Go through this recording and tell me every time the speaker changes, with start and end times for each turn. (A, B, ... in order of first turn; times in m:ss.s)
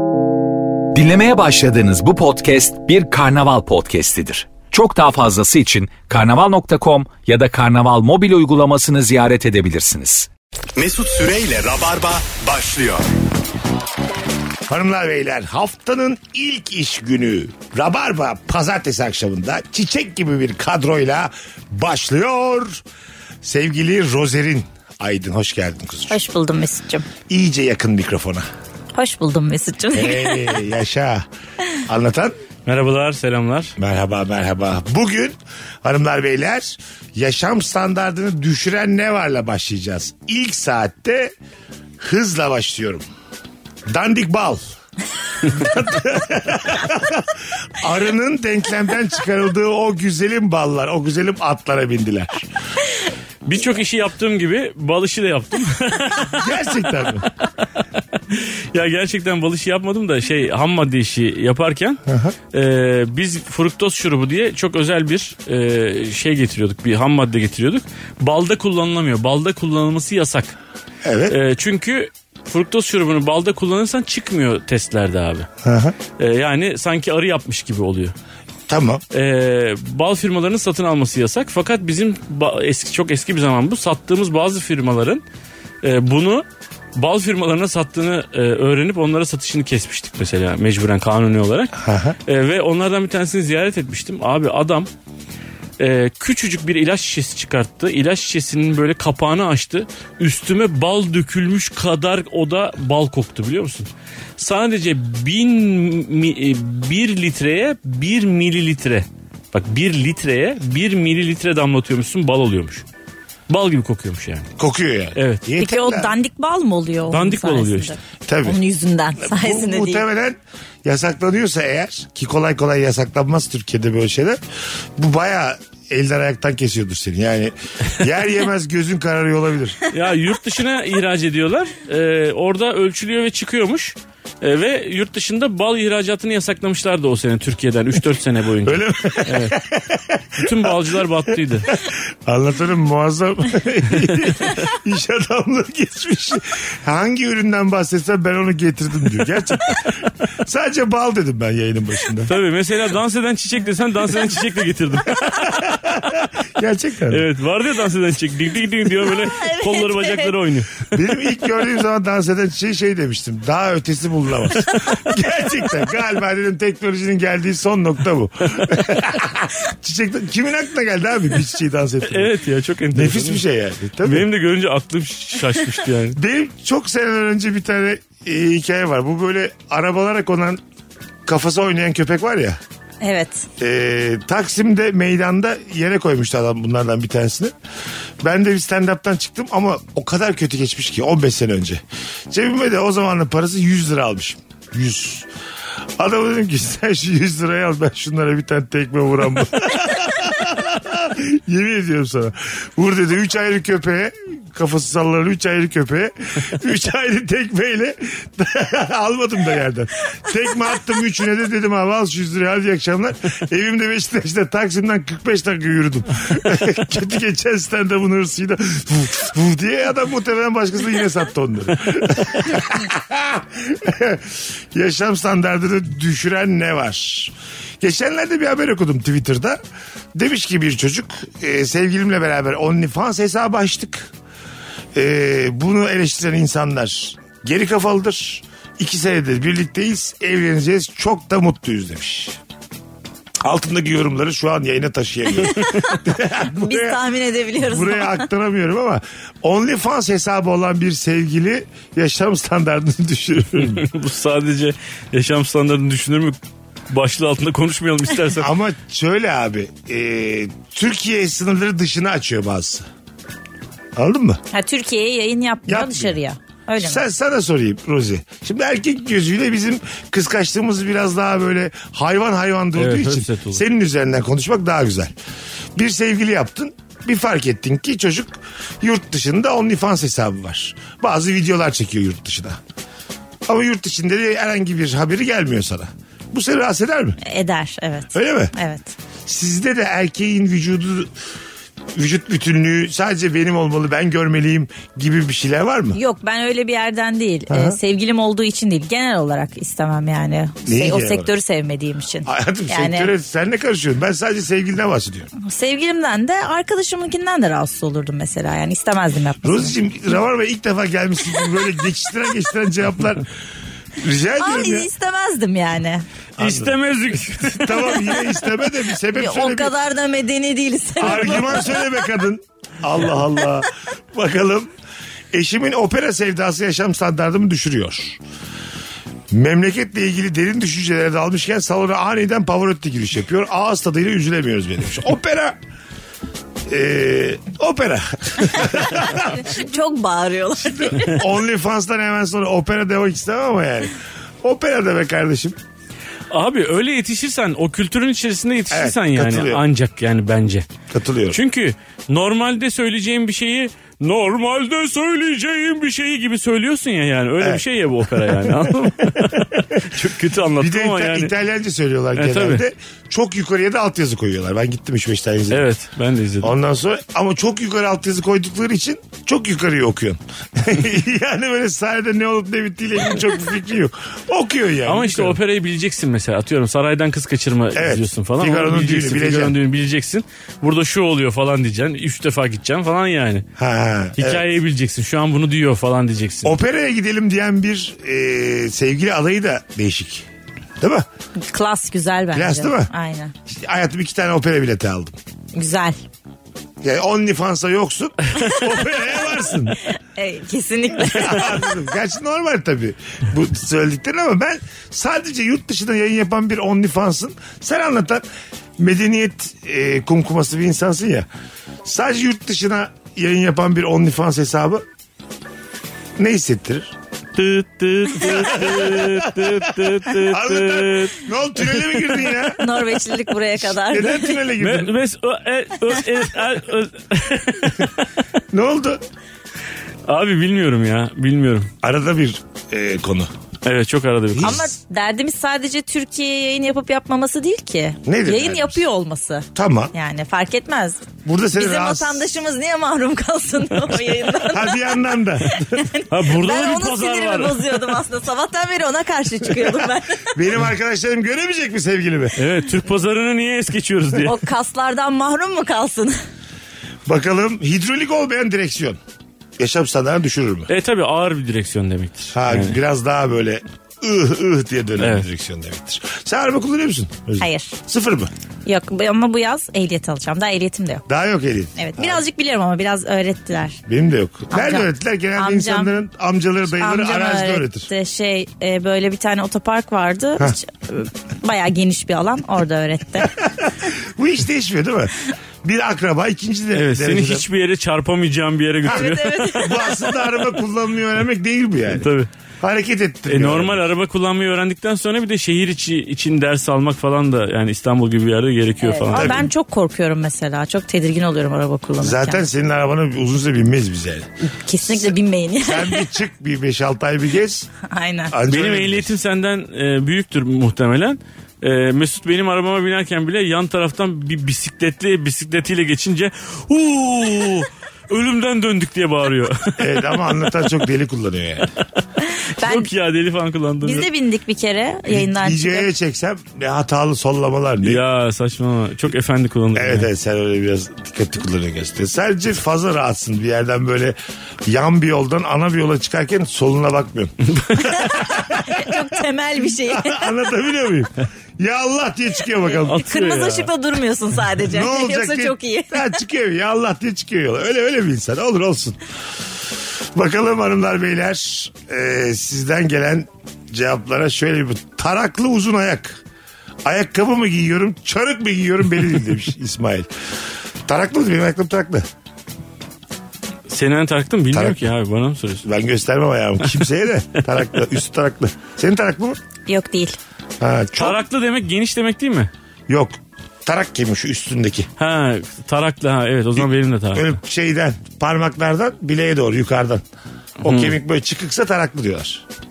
0:00.9-0:10.3 A
0:10.8-0:13.0 B
0:14.7-0:22.8 C
0:23.4-0:26.2 C
0:26.1-0:27.1 D
0:27.3-0:28.5 C
0:29.0-0:30.6 D
0:29.9-0:31.2 C
0:31.9-0:32.4 C
0:32.7-0:33.8 E
0:33.8-0:41.3 C
0:42.0-0:43.0 C
0:43.9-0:44.6 C
0:45.4-0:52.5 C
0:53.4-0:56.5 E
0:56.3-0:57.3 C
0:58.3-1:02.0 E
1:02.1-1:02.4 C
1:02.5-1:10.6 E
1:11.0-1:11.4 C
1:11.3-1:15.5 E
1:15.6-1:16.0 C
1:16.2-1:18.1 E
1:18.7-1:19.0 C
1:19.1-1:25.2 E
1:25.8-1:31.8 E
1:31.8-1:32.2 C
1:32.3-1:34.9 E
1:35.8-1:52.8 E
1:53.5-1:54.5 E
1:54.6-1:56.1 C
1:55.2-1:55.4 E
1:55.6-2:00.0 D
1:57.1-1:57.9 E
1:58.3-1:58.6 C
1:59.2-2:04.4 C
2:05.0-2:09.8 C
2:09.9-2:19.6 E
2:18.6-2:20.8 C
2:20.4-2:21.7 E
2:21.7-2:32.4 C
2:32.3-2:35.5 E
2:35.3-2:37.2 C
2:37.1-2:40.9 E
2:39.1-2:40.3 D
2:40.9-2:52.3 C
2:52.0-2:53.4 E
2:52.9-2:54.3 C
2:54.0-2:56.2 E
2:56.1-3:00.6 C
3:01.2-3:02.6 C
3:03.0-3:03.5 D
3:03.6-3:07.5 C
3:08.2-3:15.3 C
3:16.0-3:49.6 C
3:50.2-3:54.1 C
3:54.9-4:02.4 C
4:03.4-4:07.0 C
4:05.3-4:08.3 D
4:07.6-4:13.9 C
4:13.6-4:16.4 E
4:16.9-4:18.5 E
4:18.4-4:22.9 C
4:24.0-4:24.4 C
4:24.5-4:27.0 D
4:25.7-4:26.2 C
4:26.8-4:35.1 C
4:32.8-4:33.6 E
4:35.8-4:42.6 C
4:43.5-4:47.2 C
4:47.2-4:48.9 D
4:48.1-4:48.5 C
4:49.3-4:51.1 C
4:52.0-4:56.0 C
4:55.9-5:03.1 D
4:57.5-4:57.8 C
5:00.6-5:01.3 C
5:02.2-5:05.3 C
5:05.4-5:09.7 D
5:09.4-5:13.3 C
5:14.0-5:14.9 C
5:14.4-5:16.1 D
5:16.4-5:16.8 C
5:16.4-5:18.3 E
5:17.5-5:19.7 C
5:19.1-5:22.0 D
5:21.0-5:24.7 C
5:25.3-5:28.2 C
5:29.3-5:35.6 C
5:36.7-5:39.5 C
5:38.7-5:41.2 D
5:40.6-5:45.6 C
5:46.3-5:50.7 E
5:48.7-5:49.6 C
5:50.9-5:51.4 C
5:51.3-6:01.3 E
5:58.3-5:59.8 C
6:00.6-6:05.7 C
6:02.2-6:02.6 E
6:05.5-6:06.5 E
6:06.4-6:15.4 C
6:14.9-6:23.5 E
6:17.8-6:19.6 C
6:23.6-6:24.4 C
6:24.2-6:26.6 E
6:26.4-6:30.3 C
6:30.8-6:31.1 C
6:31.4-6:33.3 D
6:32.3-6:32.9 C
6:33.5-6:35.2 C
6:35.5-6:36.0 D
6:36.8-6:39.8 C
6:38.4-6:38.7 D
6:40.2-6:41.8 D
6:41.0-6:48.2 C
6:48.8-6:51.3 C
6:51.8-6:54.8 C
6:56.2-6:56.9 C
6:57.4-7:01.3 E
6:58.1-7:02.7 C
7:02.6-7:04.4 D
7:03.6-7:04.9 C
7:04.6-7:08.1 E
7:08.5-7:09.0 C
7:10.1-7:11.7 E
7:11.8-7:13.3 C
7:13.6-7:14.6 E
7:14.3-7:14.7 C
7:14.4-7:30.4 D
7:18.1-7:18.8 C
7:19.6-7:19.9 C
7:21.2-7:22.3 C
7:24.5-7:25.9 C
7:26.1-7:28.0 E
7:30.3-7:32.5 C
7:32.4-7:34.4 E
7:34.2-7:36.2 D
7:37.1-7:39.0 C
7:39.6-7:40.7 C
7:40.7-7:42.8 E
7:42.4-7:48.3 C
7:45.0-7:45.2 E
7:47.4-7:47.8 D
7:48.6-7:51.0 D
7:51.1-7:52.2 C
7:51.8-7:53.8 D
7:53.9-7:57.9 C
7:54.5-7:55.9 D
7:56.8-8:03.4 D
8:03.8-8:07.4 C
8:06.7-8:09.8 E
8:08.8-8:10.1 D
8:08.8-8:12.1 C
8:11.9-8:12.3 E
8:12.6-8:13.9 C
8:13.3-8:19.5 E
8:18.8-8:22.4 D
8:19.1-8:19.5 C
8:22.0-8:27.7 C
8:24.5-8:26.1 D
8:27.9-8:28.3 D
8:28.3-8:29.2 C
8:28.5-8:40.4 E
8:39.8-8:41.7 C
8:42.2-8:42.9 D
8:42.6-8:44.1 E
8:43.8-8:45.9 D
8:45.1-8:48.0 C
8:47.8-8:50.1 E
8:49.8-9:03.1 C
8:57.5-8:57.8 E
8:57.8-9:00.3 D
9:02.9-9:03.7 E
9:03.0-9:06.2 D
9:04.6-9:09.0 C
9:10.2-9:16.2 C
9:16.8-9:20.1 C
9:20.9-9:22.0 C
9:23.7-9:25.7 E
9:24.5-9:24.8 C
9:25.6-9:29.4 C
9:29.7-9:30.2 D
9:30.6-9:31.2 C
9:31.0-9:32.5 E
9:32.9-9:34.9 C
9:35.0-9:37.3 E
9:36.6-9:40.0 C
9:40.6-9:42.4 C
9:40.6-9:41.0 E